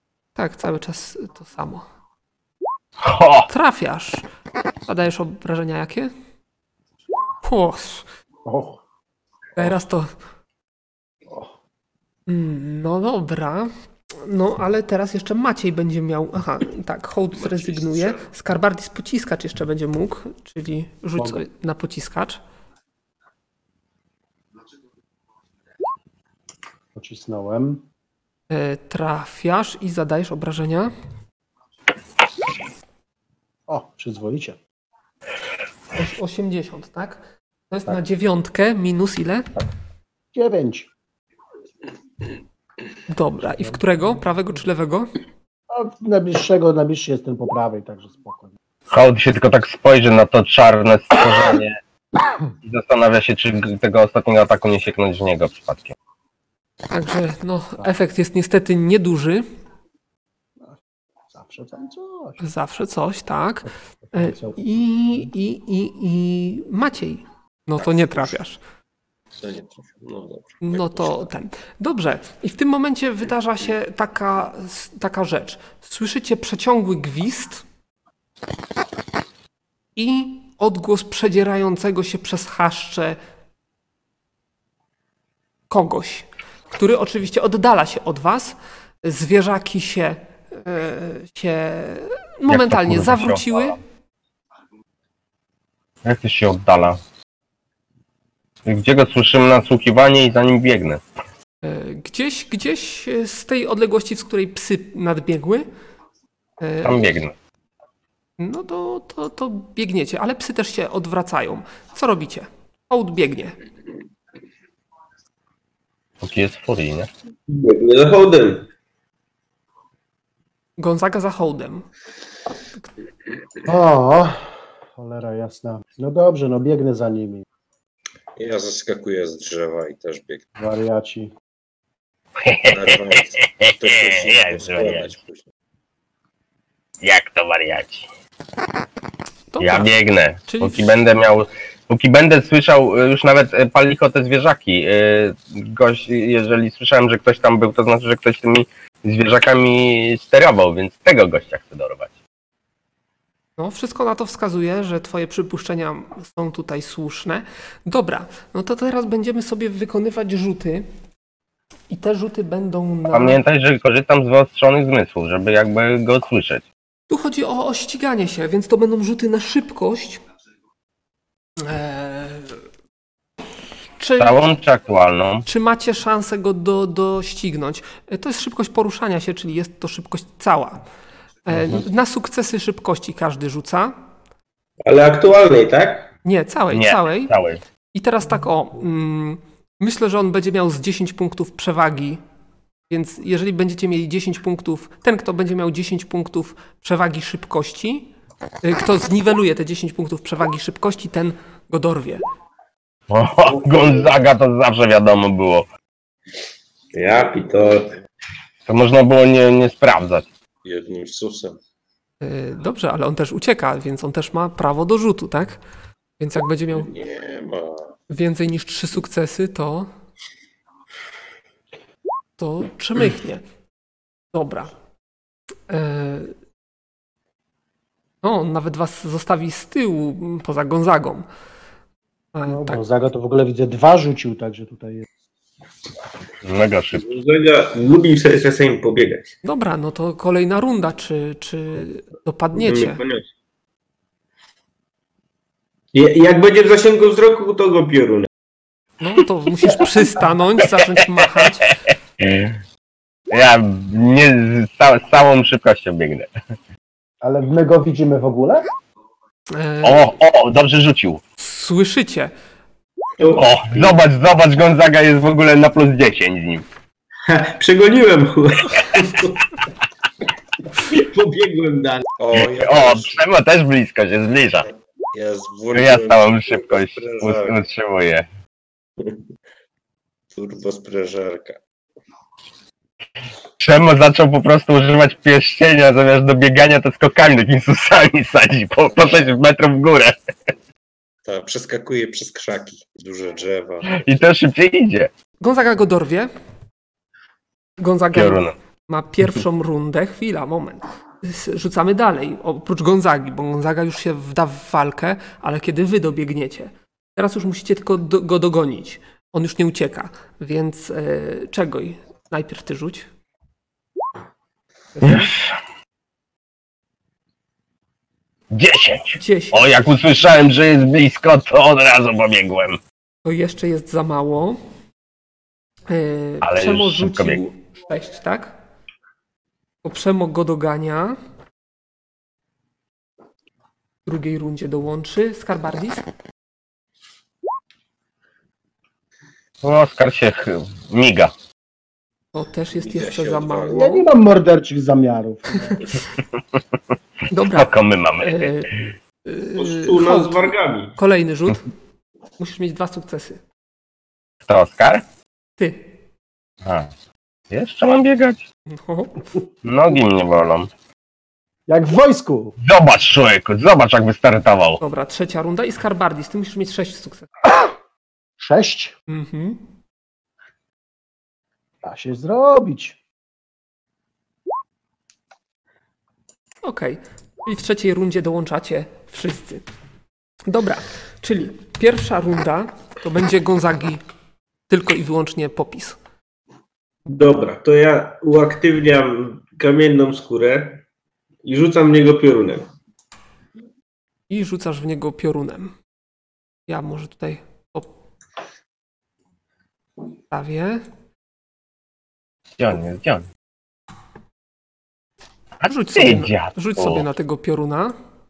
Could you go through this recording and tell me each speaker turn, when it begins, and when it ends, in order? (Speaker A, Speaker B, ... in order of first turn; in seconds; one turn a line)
Speaker A: 0.4-1.9
Speaker B: 3.0-3.5
Speaker A: 3.5-4.2
Speaker A: 4.9-6.1
Speaker A: 7.4-8.1
Speaker C: 8.4-8.8
Speaker A: 9.6-10.1
Speaker A: 12.3-22.4
Speaker D: 17.4-18.3
Speaker C: 26.9-27.8
Speaker A: 28.5-30.9
Speaker C: 33.7-34.6
Speaker A: 35.9-39.5
Speaker C: 40.3-40.9
Speaker A: 43.1-45.1
Speaker C: 45.7-48.5
Speaker B: 48.9-51.8
Speaker B: 52.6-56.0
Speaker A: 56.9-59.5
Speaker C: 61.3-62.4
Speaker A: 62.4-68.6
Speaker C: 64.0-65.3
Speaker D: 69.3-71.3
Speaker A: 70.6-77.7
Speaker A: 80.0-83.2
Speaker A: 85.7-93.8
Speaker B: 92.5-93.6
Speaker B: 96.0-97.0
Speaker B: 98.7-101.0
Speaker A: 101.6-105.7
Speaker A: 106.6-107.0
Speaker B: 106.8-107.3
Speaker A: 108.4-113.6
Speaker B: 116.2-117.1
Speaker E: 117.5-118.7
Speaker A: 120.8-121.9
Speaker C: 123.6-127.5
Speaker D: 128.4-130.5
Speaker C: 130.6-131.3
Speaker B: 132.4-135.1
Speaker D: 132.7-135.5
Speaker B: 137.0-138.1
Speaker A: 139.5-139.9
Speaker B: 139.6-152.1
Speaker A: 140.5-140.9
Speaker A: 153.6-160.9
Speaker A: 161.9-163.4
Speaker B: 163.1-166.7
Speaker A: 167.1-170.2
Speaker A: 171.6-172.6
Speaker A: 174.0-174.4
Speaker B: 174.2-175.5
Speaker A: 175.5-180.8
Speaker A: 181.4-183.9
Speaker B: 181.5-181.8
Speaker E: 184.8-186.1
Speaker A: 186.2-187.3
Speaker B: 186.7-187.6
Speaker A: 187.9-192.2
Speaker A: 192.9-198.1
Speaker A: 198.6-202.2
Speaker B: 203.1-205.7
Speaker E: 203.5-204.1
Speaker E: 206.9-208.0
Speaker B: 208.7-210.3
Speaker D: 210.6-211.6
Speaker A: 212.2-215.6
Speaker A: 216.2-216.9
Speaker D: 216.8-218.0
Speaker A: 218.1-219.9
Speaker A: 222.4-223.4
Speaker A: 224.3-224.7
Speaker A: 225.7-226.3
Speaker A: 228.2-231.3
Speaker A: 232.3-232.8
Speaker C: 232.5-235.1
Speaker B: 236.4-237.0
Speaker E: 237.0-239.4
Speaker A: 239.4-243.0
Speaker E: 242.6-243.3
Speaker E: 245.9-248.3
Speaker A: 249.0-251.8
Speaker B: 252.2-252.6
Speaker B: 253.3-256.3
Speaker C: 257.2-258.7
Speaker A: 259.5-260.1
Speaker B: 259.8-261.2
Speaker A: 261.4-262.3
Speaker E: 263.2-264.0
Speaker B: 263.3-266.6
Speaker E: 267.3-269.4
Speaker E: 270.8-272.1
Speaker D: 272.2-273.2
Speaker B: 272.5-274.6
Speaker D: 274.6-277.6
Speaker B: 275.7-278.3
Speaker D: 280.3-281.6
Speaker B: 283.6-290.1
Speaker D: 291.2-294.0
Speaker B: 293.9-295.1
Speaker A: 295.4-296.3
Speaker A: 297.8-313.1
Speaker B: 298.1-298.5
Speaker A: 315.0-315.3
Speaker B: 315.0-315.6
Speaker B: 318.5-322.8
Speaker A: 319.2-319.7
Speaker A: 323.2-324.6
Speaker A: 325.9-328.6
Speaker B: 326.4-327.4
Speaker A: 329.8-331.2
Speaker A: 334.1-336.1
Speaker B: 339.6-341.3
Speaker A: 342.3-344.1
Speaker D: 342.7-344.0
Speaker C: 343.7-345.8
Speaker A: 345.7-346.0
Speaker A: 347.3-348.7
Speaker B: 347.5-348.8
Speaker A: 349.2-351.7
Speaker E: 349.6-350.9
Speaker A: 352.4-353.4
Speaker B: 354.5-355.0
Speaker A: 355.6-355.9
Speaker B: 356.6-356.9
Speaker B: 357.5-358.4
Speaker A: 358.7-359.4
Speaker B: 359.6-360.7
Speaker C: 361.7-362.6
Speaker B: 362.6-364.8
Speaker A: 364.8-367.3
Speaker C: 368.4-368.9
Speaker A: 369.1-369.6
Speaker C: 371.8-373.0
Speaker A: 376.6-379.7
Speaker A: 380.5-384.0
Speaker A: 384.7-386.0
Speaker E: 387.1-390.8
Speaker E: 391.4-392.7
Speaker A: 394.3-395.8
Speaker A: 396.7-397.9
Speaker A: 400.3-400.9
Speaker B: 402.6-403.3
Speaker B: 405.6-407.1
Speaker A: 405.6-408.0